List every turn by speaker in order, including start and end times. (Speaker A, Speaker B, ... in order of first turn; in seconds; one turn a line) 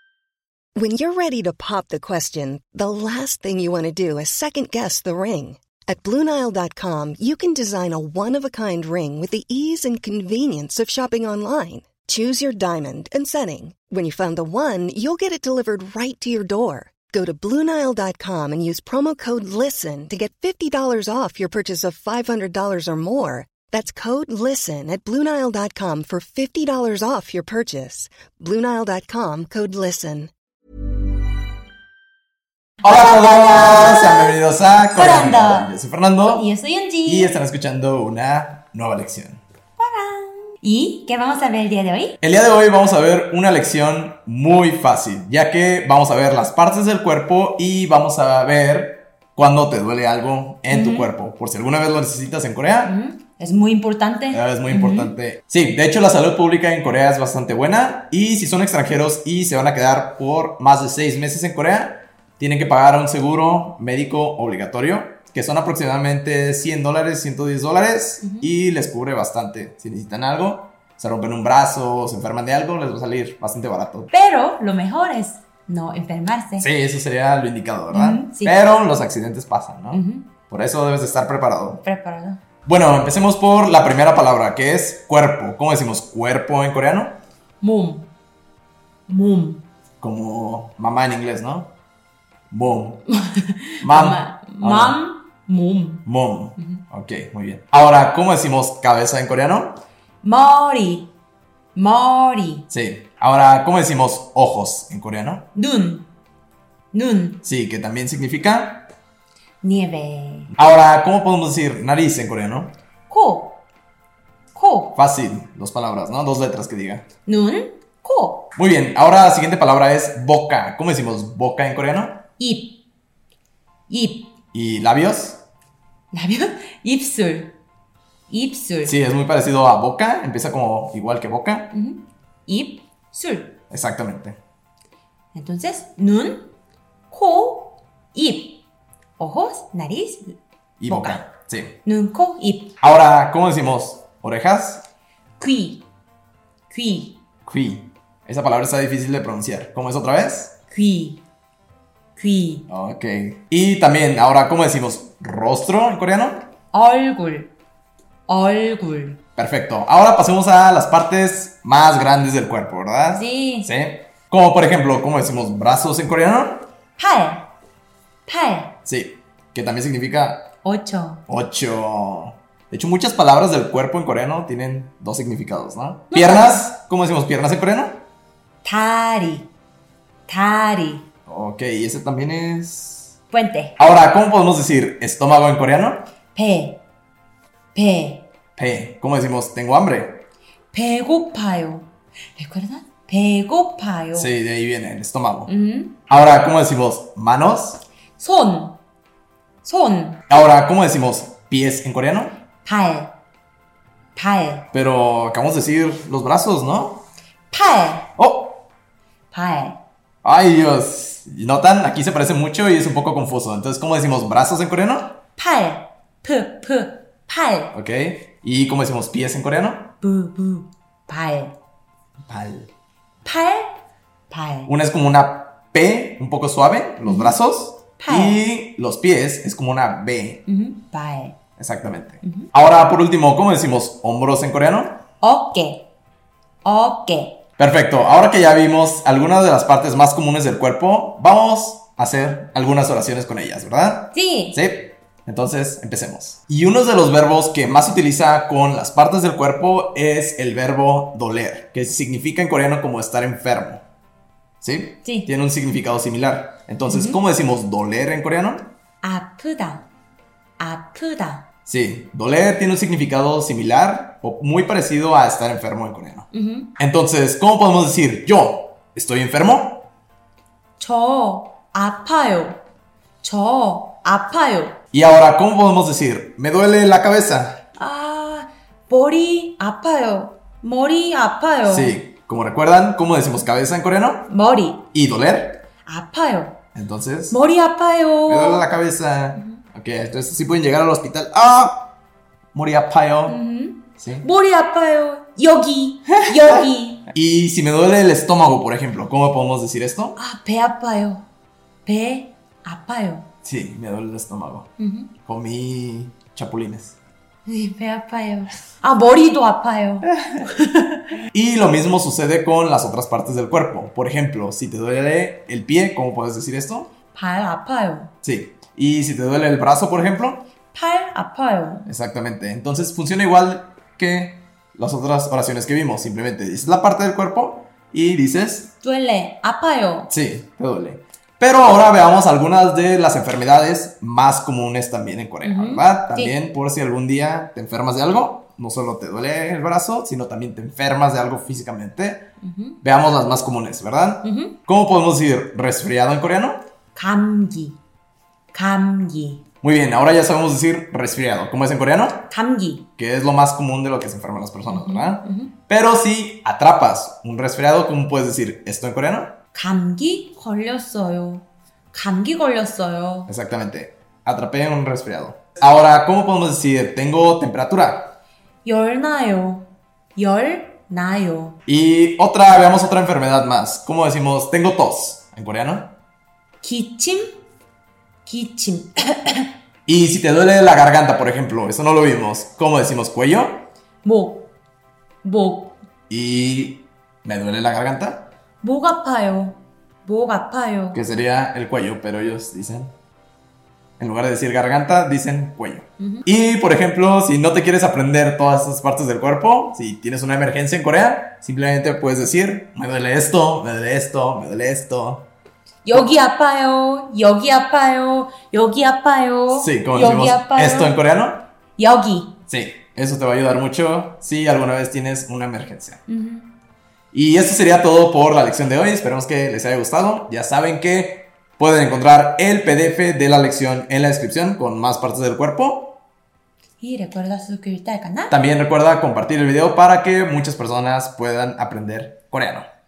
Speaker A: 0.8-30.3
Speaker B: 32.8-36.5
Speaker C: 33.4-34.4
Speaker C: 35.0-37.4
Speaker B: 37.0-39.4
Speaker C: 39.8-42.2
Speaker B: 42.2-52.9
Speaker C: 50.7-51.1
Speaker C: 52.8-55.1
Speaker B: 54.3-74.1
Speaker C: 68.2-68.5
Speaker C: 74.1-76.7
Speaker B: 76.6-81.8
Speaker C: 77.9-78.6
Speaker C: 79.9-80.3
Speaker C: 81.8-82.4
Speaker B: 82.7-87.2
Speaker C: 87.6-88.1
Speaker C: 89.1-89.6
Speaker B: 90.0-91.7
Speaker B: 92.5-93.0
Speaker C: 93.1-96.1
Speaker B: 93.8-95.0
Speaker B: 96.0-99.8
Speaker C: 100.2-101.1
Speaker C: 101.8-102.7
Speaker B: 102.7-105.5
Speaker C: 105.5-106.1
Speaker C: 106.9-107.4
Speaker B: 107.4-108.9
Speaker C: 109.6-110.5
Speaker B: 110.5-112.8
Speaker C: 113.1-113.6
Speaker C: 114.5-115.0
Speaker B: 115.0-117.0
Speaker C: 117.3-118.5
Speaker B: 118.6-122.2
Speaker C: 122.4-122.8
Speaker C: 123.9-124.3
Speaker B: 124.5-125.4
Speaker C: 126.1-127.6
Speaker C: 128.3-128.9
Speaker B: 128.8-131.7
Speaker C: 131.7-133.6
Speaker B: 133.7-134.4
Speaker C: 135.3-136.5
Speaker C: 137.1-138.6
Speaker C: 139.2-141.3
Speaker B: 140.8-141.8
Speaker C: 141.8-142.8
Speaker B: 142.8-144.8
Speaker C: 145.4-145.9
Speaker C: 146.7-147.2
Speaker B: 147.5-150.6
Speaker C: 150.7-151.2
Speaker C: 152.2-152.7
Speaker B: 152.7-156.5
Speaker C: 156.7-157.5
Speaker C: 158.3-159.2
Speaker B: 159.4-166.7
Speaker C: 163.1-163.7
Speaker C: 167.0-167.5
Speaker C: 168.3-168.8
Speaker B: 168.9-170.5
Speaker C: 170.6-171.2
Speaker B: 171.3-178.1
Speaker C: 176.1-176.6
Speaker C: 178.6-179.5
Speaker C: 180.3-181.1
Speaker B: 181.3-183.1
Speaker C: 183.3-183.8
Speaker B: 183.8-186.1
Speaker C: 186.3-186.8
Speaker C: 187.7-188.3
Speaker B: 188.6-190.2
Speaker C: 190.7-194.3
Speaker B: 194.1-195.5
Speaker C: 195.5-196.0
Speaker B: 196.1-197.8
Speaker C: 198.2-198.8
Speaker C: 199.6-200.2
Speaker B: 200.3-202.4
Speaker C: 202.7-203.1
Speaker C: 204.2-204.7
Speaker B: 204.7-207.0
Speaker C: 207.5-208.1
Speaker B: 208.2-208.6
Speaker C: 209.3-209.8
Speaker B: 210.2-215.2
Speaker C: 215.4-217.8
Speaker B: 217.7-219.9
Speaker C: 220.0-221.6
Speaker B: 222.3-222.7
Speaker C: 223.2-224.7
Speaker B: 224.7-230.4
Speaker C: 227.1-227.4
Speaker C: 228.0-228.4
Speaker C: 230.5-231.4
Speaker B: 231.6-235.0
Speaker C: 232.2-232.5
Speaker C: 235.2-235.9
Speaker C: 236.6-237.4
Speaker B: 237.6-253.8
Speaker C: 244.1-244.6
Speaker B: 254.6-258.7
Speaker C: 255.0-255.3
Speaker C: 256.9-257.2
Speaker C: 259.0-259.9
Speaker C: 260.6-261.5
Speaker B: 261.7-269.9
Speaker C: 266.3-266.7
Speaker C: 270.8-272.6
Speaker C: 273.2-274.8
Speaker B: 274.9-277.6
Speaker C: 277.8-282.0
Speaker B: 281.7-284.3
Speaker C: 284.3-284.9
Speaker B: 284.9-285.6
Speaker C: 285.9-286.6
Speaker B: 286.8-287.4
Speaker C: 287.3-288.7
Speaker B: 288.3-291.9
Speaker B: 292.5-293.4
Speaker C: 293.3-297.1
Speaker B: 294.0-294.3
Speaker B: 296.1-300.2
Speaker C: 300.2-301.2
Speaker C: 301.9-303.3
Speaker B: 303.4-304.7
Speaker C: 304.8-305.1
Speaker B: 305.2-307.0
Speaker C: 307.5-311.0
Speaker B: 311.3-316.9
Speaker C: 317.1-318.1
Speaker B: 318.2-320.4
Speaker C: 320.7-321.9
Speaker B: 321.9-328.7
Speaker C: 328.8-330.1
Speaker B: 330.1-342.3
Speaker C: 335.4-336.4
Speaker C: 342.4-342.8
Speaker B: 342.8-346.6
Speaker C: 344.2-344.6
Speaker C: 346.9-347.8
Speaker C: 348.5-349.4
Speaker B: 349.6-352.3
Speaker C: 352.3-352.9
Speaker B: 353.0-359.4
Speaker C: 354.7-355.5
Speaker C: 359.5-363.3
Speaker B: 363.3-368.1
Speaker C: 368.6-371.6
Speaker B: 371.7-375.9
Speaker C: 376.6-377.3
Speaker C: 378.2-379.5
Speaker B: 379.9-383.7
Speaker C: 384.0-384.5
Speaker C: 385.2-385.8
Speaker B: 386.1-388.3
Speaker C: 388.6-391.0
Speaker B: 390.9-392.9
Speaker B: 394.0-405.3
Speaker C: 396.0-396.2
Speaker C: 405.9-411.0
Speaker B: 409.5-411.4
Speaker C: 411.8-412.4
Speaker B: 412.5-416.0
Speaker C: 416.1-416.5
Speaker B: 417.1-426.0
Speaker C: 426.8-428.4
Speaker B: 428.3-432.7